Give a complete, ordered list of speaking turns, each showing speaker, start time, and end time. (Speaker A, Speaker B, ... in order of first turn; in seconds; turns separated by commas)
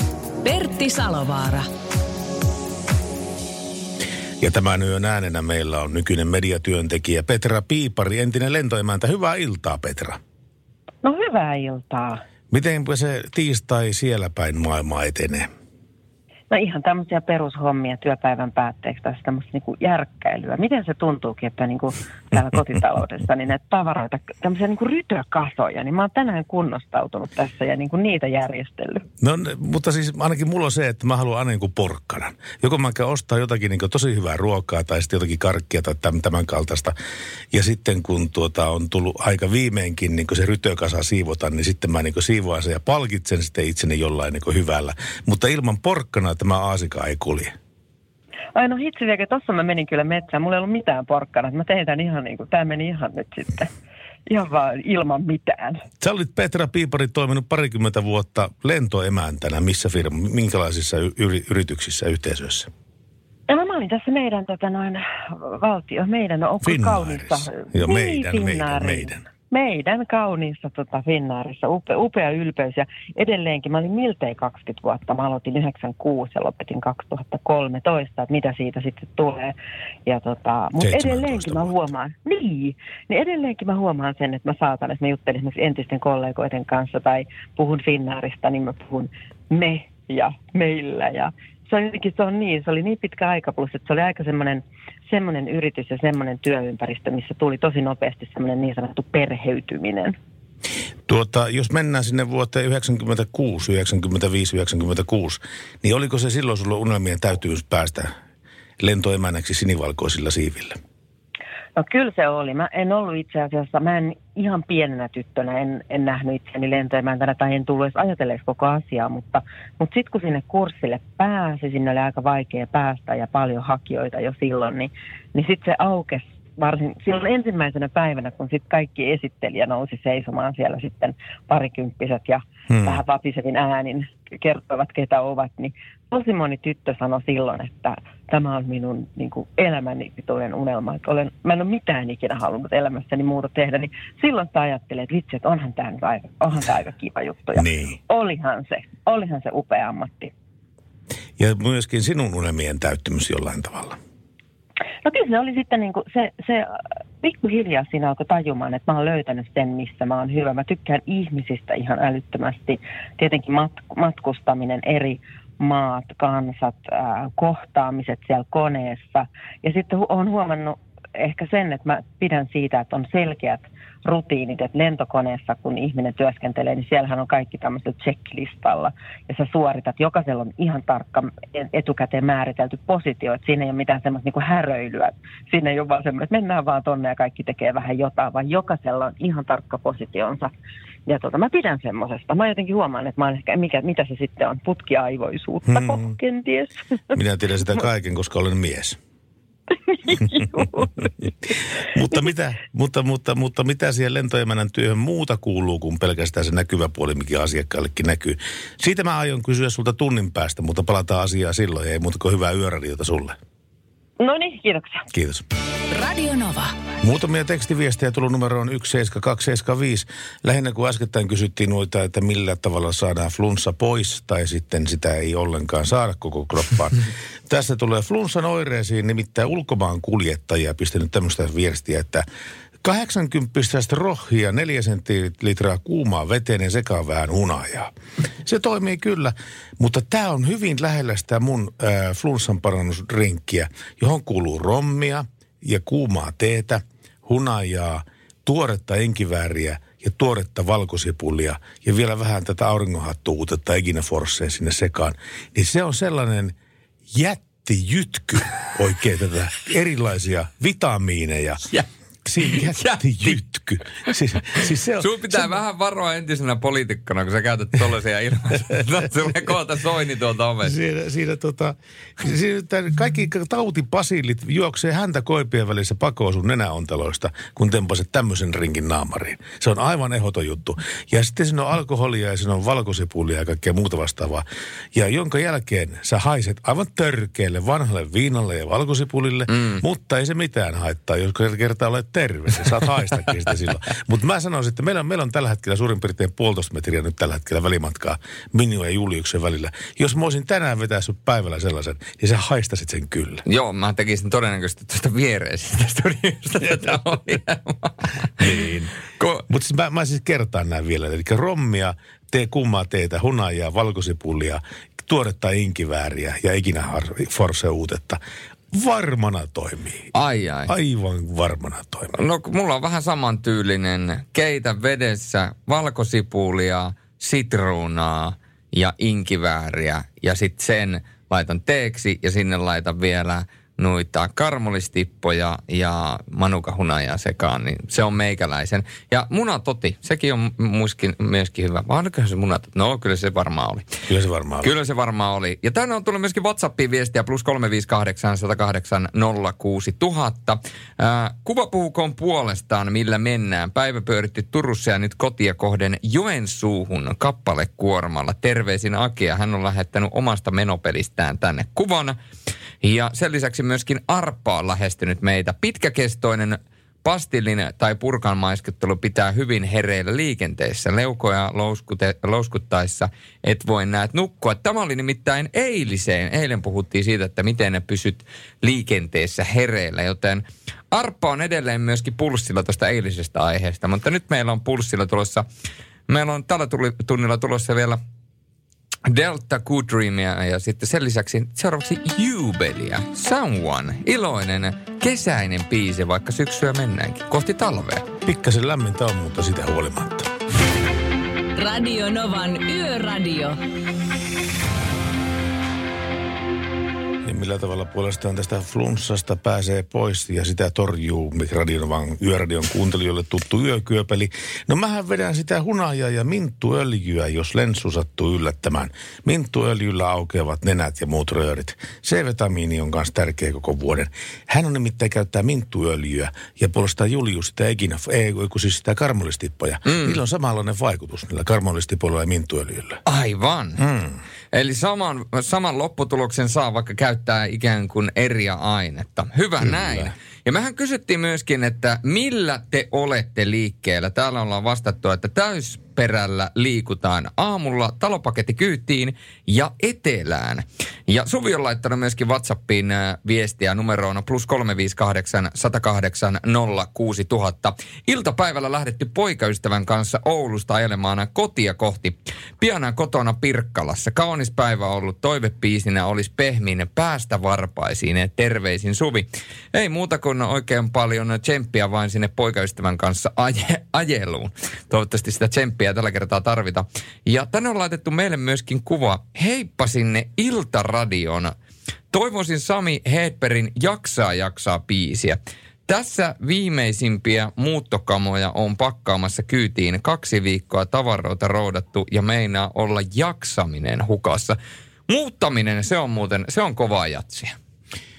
Speaker A: 0.4-1.7, Speaker B: 4.4-10.2, Speaker C: 11.0-12.2, Speaker B: 12.5-15.5, Speaker C: 16.5-29.0, Speaker B: 29.2-36.9, Speaker B: 37.5-47.5, Speaker C: 48.5-53.7, Speaker C: 54.3-55.8, Speaker B: 56.0-62.7, Speaker C: 63.5-79.5, Speaker B: 66.6-69.2, Speaker C: 80.0-100.2, Speaker B: 80.8-81.8, Speaker B: 101.1-108.1, Speaker B: 108.8-110.8, Speaker C: 111.8-150.3, Speaker B: 132.7-133.0, Speaker B: 147.6-148.0, Speaker B: 151.4-154.0, Speaker C: 155.0-190.5, Speaker C: 191.1-197.2, Speaker B: 195.7-196.1, Speaker B: 197.1-199.0, Speaker C: 199.9-200.9, Speaker B: 200.2-201.1, Speaker B: 201.8-213.4, Speaker C: 214.2-215.0, Speaker B: 215.1-215.4, Speaker A: 215.9-216.7, Speaker B: 217.0-232.2, Speaker B: 232.8-237.9, Speaker B: 238.4-256.5, Speaker B: 257.1-261.6, Speaker B: 262.2-265.5, Speaker D: 262.4-263.4, Speaker D: 264.1-270.8, Speaker B: 270.6-303.4, Speaker D: 289.5-289.8, Speaker D: 303.4-308.6, Speaker B: 306.6-307.0, Speaker B: 308.4-308.9, Speaker B: 309.5-318.2, Speaker B: 318.7-320.1, Speaker D: 320.1-320.7, Speaker B: 320.7-322.1, Speaker D: 322.1-343.9, Speaker B: 344.1-344.7, Speaker D: 344.6-362.2, Speaker D: 362.8-385.4, Speaker D: 386.1-388.0, Speaker D: 389.1-398.1, Speaker B: 398.2-400.3, Speaker A: 401.6-403.6, Speaker B: 407.2-433.0, Speaker D: 429.8-430.2, Speaker D: 433.1-433.8, Speaker B: 433.8-434.2, Speaker D: 434.5-481.5, Speaker B: 439.6-440.1, Speaker D: 482.1-494.6, Speaker D: 495.1-497.6